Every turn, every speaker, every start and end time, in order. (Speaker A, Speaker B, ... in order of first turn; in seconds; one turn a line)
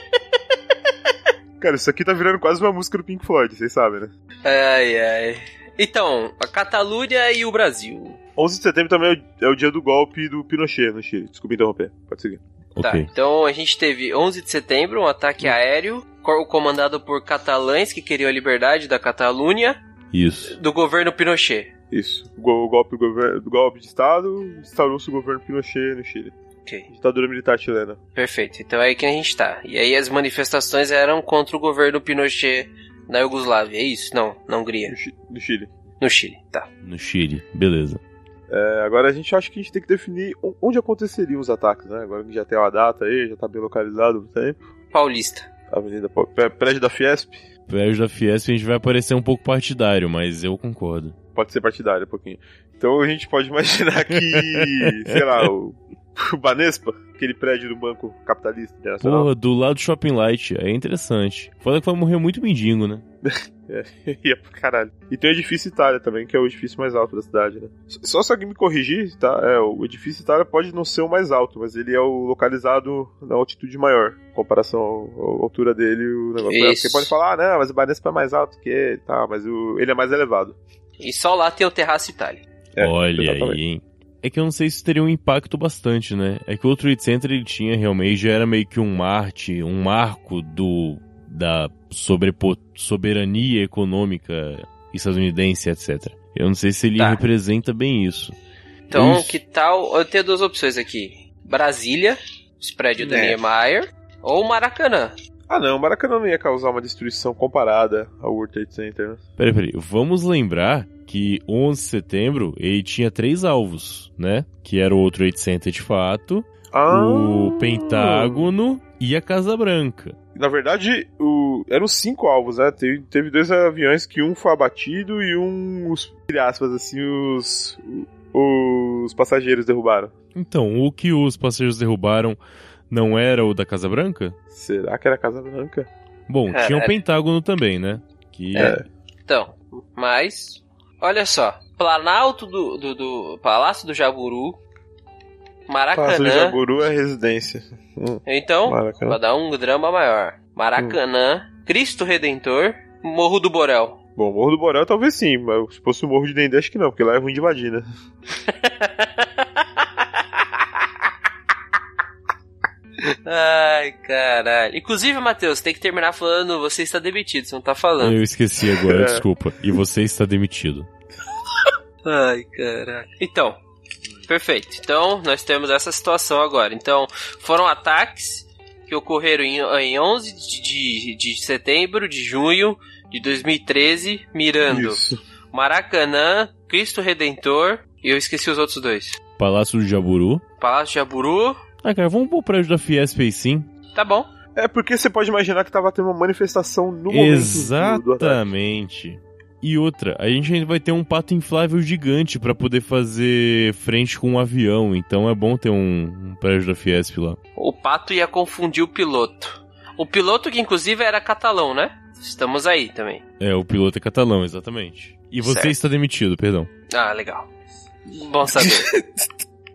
Speaker A: 1.6-4.1
Speaker B: 4.4-8.2
Speaker A: 8.3-12.4
Speaker C: 12.8-13.1
Speaker B: 12.8-19.8
Speaker C: 20.1-20.6
Speaker B: 20.5-21.7
Speaker A: 21.9-26.3
Speaker A: 26.9-28.0
Speaker B: 28.1-35.0
Speaker A: 34.9-35.7
Speaker B: 36.0-36.7
Speaker C: 36.8-38.0
Speaker A: 38.5-44.6
Speaker B: 44.9-45.5
Speaker A: 45.7-47.4
Speaker C: 47.7-51.1
Speaker A: 51.3-59.3
Speaker C: 54.2-55.2
Speaker C: 59.0-63.0
Speaker A: 63.2-80.6
Speaker B: 76.4-77.1
Speaker B: 81.0-82.4
Speaker A: 82.8-83.6
Speaker C: 82.8-98.3
Speaker C: 98.9-99.4
Speaker B: 98.9-105.1
Speaker A: 103.0-103.4
Speaker A: 105.5-109.2
Speaker C: 109.4-120.2
Speaker A: 116.7-118.5
Speaker A: 120.3-130.1
Speaker C: 130.3-132.4
Speaker C: 132.9-134.3
Speaker A: 134.5-135.9
Speaker C: 136.3-138.8
Speaker B: 136.5-137.0
Speaker A: 138.5-138.8
Speaker B: 138.5-144.6
Speaker B: 145.7-146.6
Speaker A: 145.9-149.2
Speaker B: 148.2-154.0
Speaker A: 154.2-157.8
Speaker B: 158.4-159.8
Speaker B: 163.2-168.2
Speaker C: 168.0-170.9
Speaker A: 168.8-169.2
Speaker B: 172.0-173.6
Speaker B: 174.3-185.0
Speaker A: 184.7-185.2
Speaker B: 185.5-189.2
Speaker C: 189.4-190.4
Speaker B: 190.6-191.6
Speaker C: 191.8-193.7
Speaker B: 193.9-194.3
Speaker A: 194.6-198.5
Speaker C: 197.1-207.4
Speaker B: 207.6-213.2
Speaker C: 213.4-216.7
Speaker B: 215.4-215.8
Speaker B: 216.9-217.4
Speaker B: 218.1-218.9
Speaker A: 218.5-219.3